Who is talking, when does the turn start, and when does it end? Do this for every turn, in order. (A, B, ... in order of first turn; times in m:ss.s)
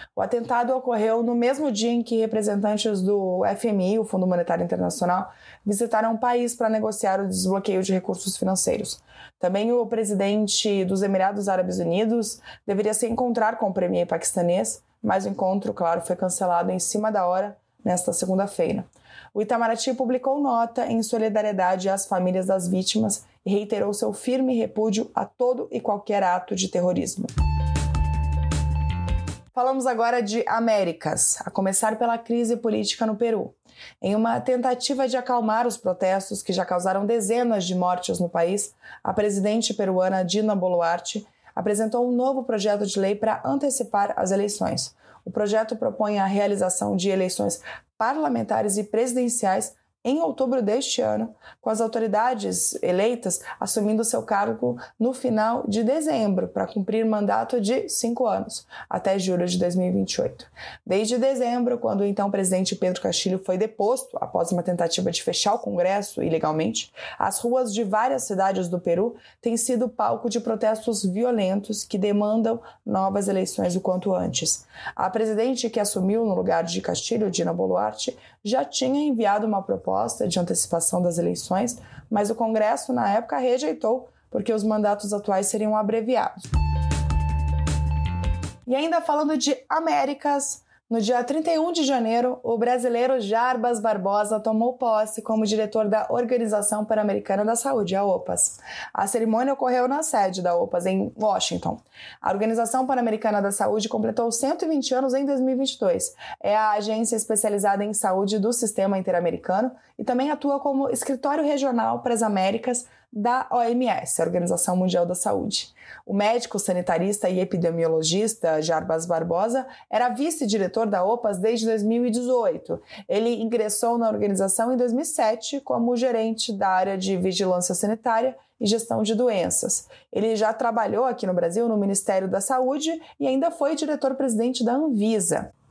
0:00.2-0:27.3 A
0:29.6-1:26.4 A
1:28.7-2:15.5 A